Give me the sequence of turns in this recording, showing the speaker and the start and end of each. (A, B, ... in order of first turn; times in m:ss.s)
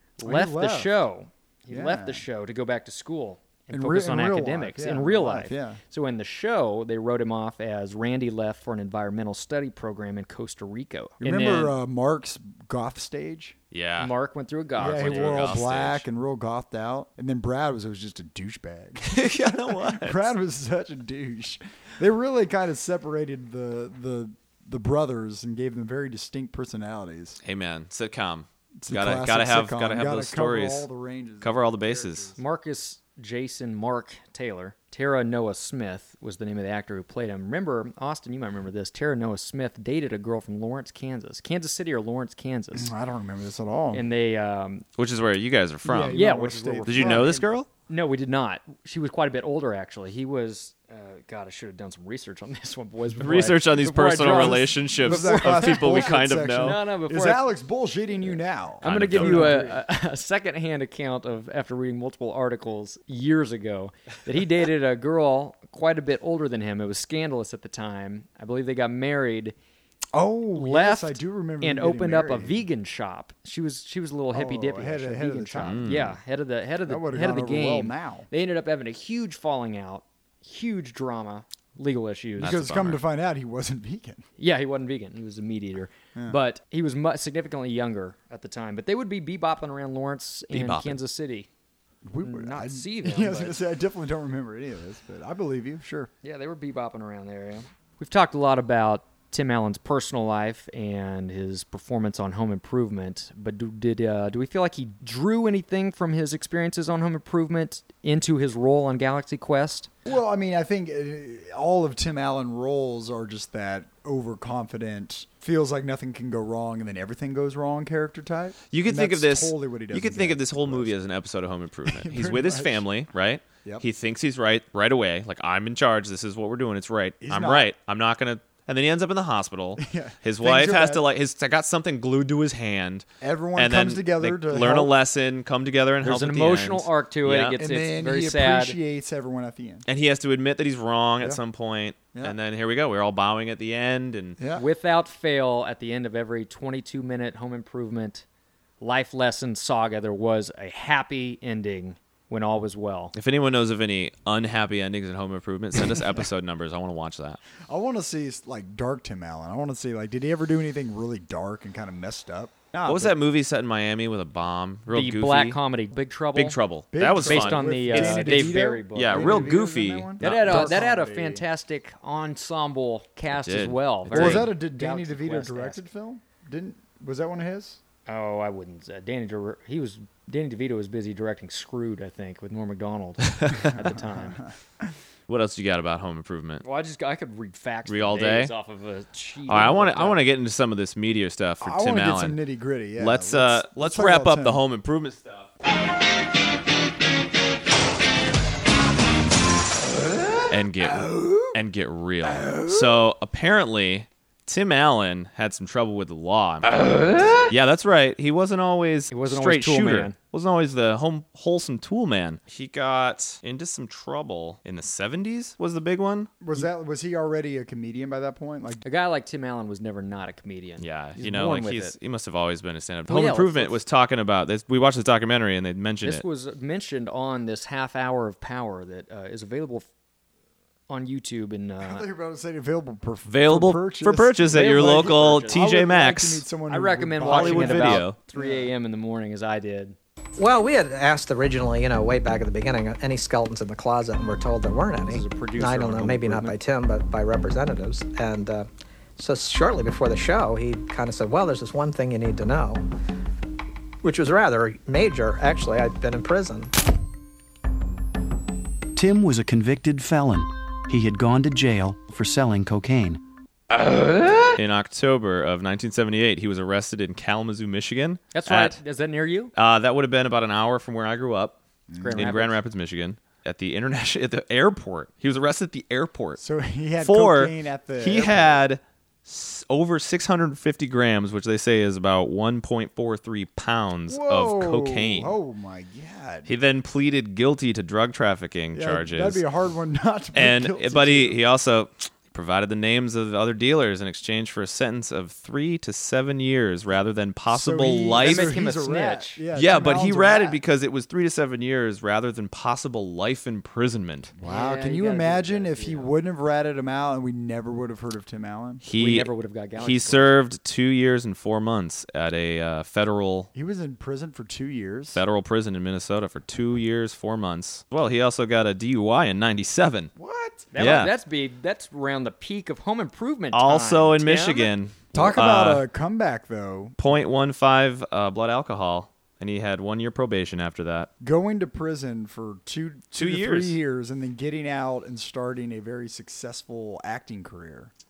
0:00.2-0:01.0 A
0:00.2-0:11.7 B
0:01.7-0:02.2 A
0:03.7-0:05.8 A
0:11.2-0:13.6 A
0:13.7-0:14.1 C
0:14.0-0:15.6 B
0:14.8-0:16.0 C
0:14.8-0:27.4 A
0:19.0-0:20.3 C
0:27.4-0:30.9 C
0:28.8-0:32.4 A
0:31.4-0:32.3 C
0:32.4-0:42.9 B
0:42.7-0:44.0 A
0:43.9-0:44.8 B
0:45.0-0:46.2 C
0:45.8-0:47.5 A
0:46.1-0:47.3 B
0:46.8-0:47.7 C
0:47.9-0:57.5 B
0:53.2-0:56.8 C
0:54.2-0:59.8 A
0:58.3-1:09.5 B
0:58.8-0:59.6 C
1:10.1-1:12.6 A
1:10.5-1:22.6 B
1:14.3-1:16.0 A
1:15.6-1:16.2 C
1:16.8-1:18.3 A
1:22.4-1:23.0 C
1:22.4-1:24.2 A
1:24.4-1:31.5 B
1:30.5-1:31.0 C
1:32.0-1:36.1 A
1:32.2-1:33.6 B
1:36.2-1:49.9 B
1:50.0-2:01.0 A
1:58.7-2:13.0 C
2:01.8-2:02.8 A
2:07.2-2:07.7 A
2:09.8-2:11.0 A
2:13.2-2:14.9 A
2:13.6-2:17.6 C
2:16.0-2:18.8 B
2:17.5-2:19.8 A
2:19.9-2:24.4 C
2:24.4-2:24.6 A
2:24.6-2:28.2 B
2:28.8-2:33.1 B
2:33.1-2:37.4 C
2:37.7-2:43.2 A
2:42.8-2:45.6 C
2:44.9-2:46.6 B
2:46.3-2:50.8 C
2:46.9-2:51.4 A
2:47.2-2:49.6 B
2:50.2-2:55.8 B
2:53.3-2:54.5 C
2:54.1-2:57.8 A
2:58.1-3:04.4 B
3:03.3-3:03.7 C
3:05.3-3:06.6 C
3:06.6-3:10.2 B
3:07.8-3:08.5 C
3:09.5-3:12.4 C
3:11.6-3:14.6 A
3:13.0-3:15.5 C
3:20.5-3:26.8 C
3:20.9-3:21.5 A
3:22.2-3:23.0 A
3:27.3-3:36.3 C
3:29.1-3:30.2 B
3:36.4-3:38.8 A
3:38.8-3:41.9 B
3:40.8-3:46.2 C
3:43.1-3:43.8 B
3:46.0-3:49.8 B
3:50.9-3:52.0 B
3:51.8-3:58.7 A
3:53.2-3:56.4 C
3:54.5-3:55.6 B
3:56.7-4:00.0 B
3:57.3-3:58.2 C
4:00.4-4:12.8 D
4:05.1-4:06.6 B
4:14.0-4:16.7 D
4:18.9-4:23.2 E
4:24.5-4:28.8 C
4:28.3-4:29.5 B
4:29.5-4:31.6 C
4:31.9-4:32.3 A
4:32.0-4:32.6 B
4:32.1-4:36.4 C
4:36.4-4:38.6 A
4:37.0-4:45.4 C
4:44.1-4:46.5 A
4:46.4-4:49.4 C
4:48.7-4:51.4 A
4:50.3-4:58.6 C
4:57.5-5:00.6 A
4:58.2-4:59.4 B
4:59.6-5:04.3 C
5:04.4-5:08.8 A
5:04.4-5:06.1 B
5:08.8-5:13.5 C
5:08.9-5:10.4 B
5:13.5-5:15.2 A
5:15.1-5:20.1 C
5:20.2-5:20.7 A
5:20.7-5:24.7 B
5:20.8-5:21.1 C
5:23.5-5:25.8 C
5:25.1-5:27.0 A
5:27.0-5:31.1 C
5:31.2-5:37.9 A
5:33.1-5:33.8 C